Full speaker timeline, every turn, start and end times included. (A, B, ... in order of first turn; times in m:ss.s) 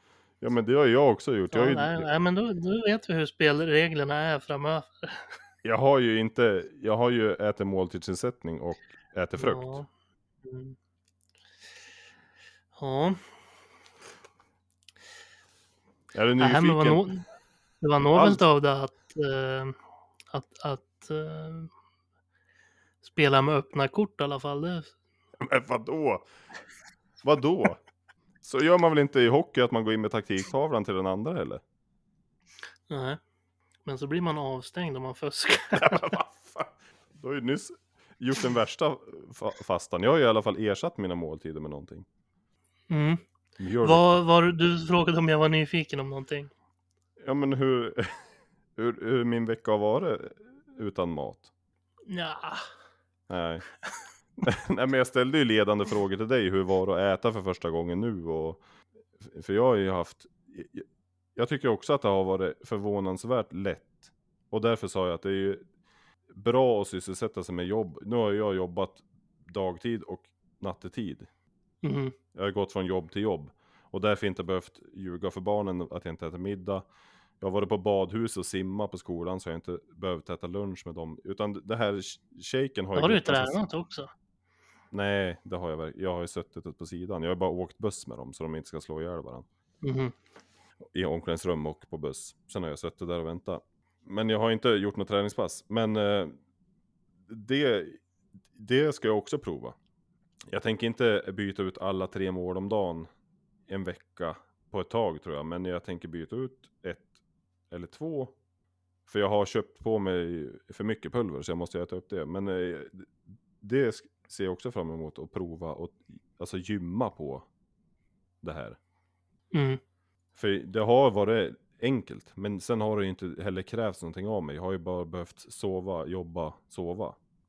0:00.4-0:02.1 A
0:01.5-0:05.3 B
0:05.6-0:09.8 A
0:09.4-0:09.9 B
0:10.4-0:10.8 B
0:12.8-0:13.2 B
0:16.1-0:17.1 A
0:16.4-0:17.2 B
0:17.8-0:19.8 B
0:18.0-0:18.4 A
0:20.3-0:21.7 B
0:23.0-0:25.0 B
0:25.4-0:26.2 A
0:27.2-0:27.8 A
0:28.4-0:31.6 A
0:32.9-0:33.2 B
0:33.9-0:36.1 B
0:35.8-0:42.1 A
0:42.9-0:43.2 B
0:43.6-0:44.1 A
0:43.8-0:46.5 B
0:47.2-0:48.2 A
0:48.8-0:51.5 A
0:52.1-0:52.7 B
0:53.3-0:53.7 A
0:54.4-0:58.6 A
0:59.2-1:00.8 A
1:01.4-1:05.7 A
1:06.3-1:11.3 A
1:11.8-1:12.2 B
1:12.3-1:16.9 A
1:17.4-1:23.6 A
1:23.0-1:24.1 B
1:24.9-1:29.5 A
1:29.8-1:30.1 B
1:30.9-1:36.4 A
1:37.3-1:38.0 A
1:38.5-1:39.8 A
1:40.5-1:43.1 A
1:43.7-1:47.1 A
1:47.7-1:48.3 A
1:49.1-1:57.4 A
1:58.4-1:58.8 A
1:59.5-1:59.8 B
2:00.4-2:07.2 A